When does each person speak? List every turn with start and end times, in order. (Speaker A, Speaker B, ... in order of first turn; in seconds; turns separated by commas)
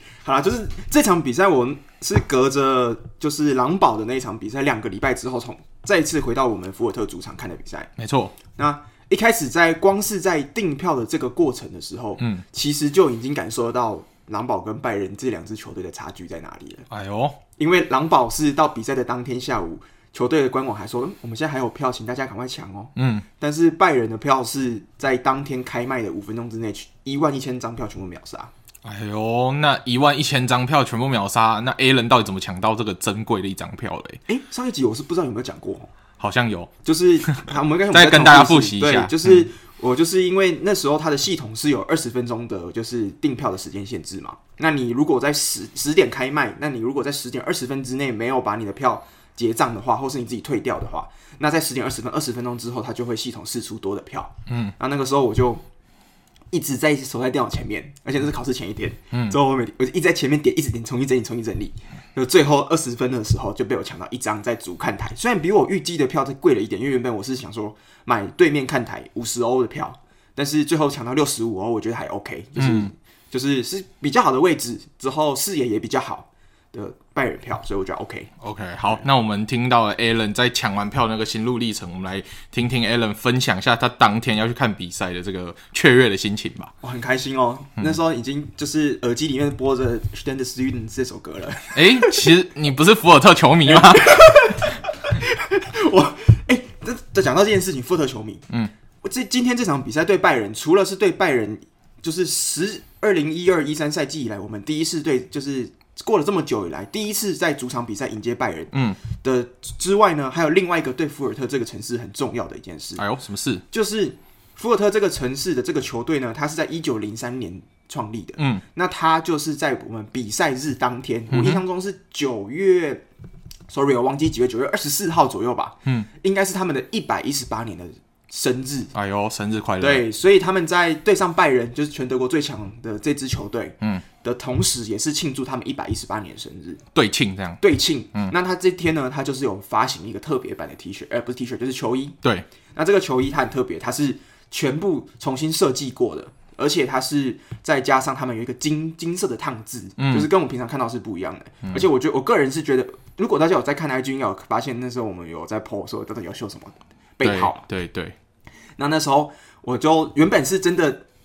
Speaker A: 0.2-7.9, Speaker B: 8.0-8.4, Speaker A: 8.5-16.9, Speaker B: 12.2-12.4, Speaker B: 16.9-17.4, Speaker A: 17.6-28.5, Speaker B: 23.0-23.2, Speaker B: 28.8-34.2, Speaker A: 34.3-35.9, Speaker B: 36.2-39.5, Speaker A: 36.8-55.6, Speaker B: 54.5-54.7, Speaker A: 56.5-78.3, Speaker B: 59.1-59.4, Speaker B: 72.6-72.9, Speaker B: 78.4-86.7, Speaker A: 86.8-92.2, Speaker B: 91.7-94.4, Speaker A: 93.7-98.5, Speaker A: 99.0-113.0, Speaker B: 108.7-109.0, Speaker B: 113.0-113.6, Speaker A: 113.7-123.0, Speaker B: 118.4-118.6, Speaker B: 121.3-121.6, Speaker A: 123.7-128.9, Speaker B: 128.9-130.0, Speaker A: 129.8-136.8, Speaker B: 136.9-137.6, Speaker A: 137.6-142.2, Speaker A: 142.8-157.6, Speaker B: 150.0-150.3, Speaker B: 157.2-158.2, Speaker A: 158.8-161.0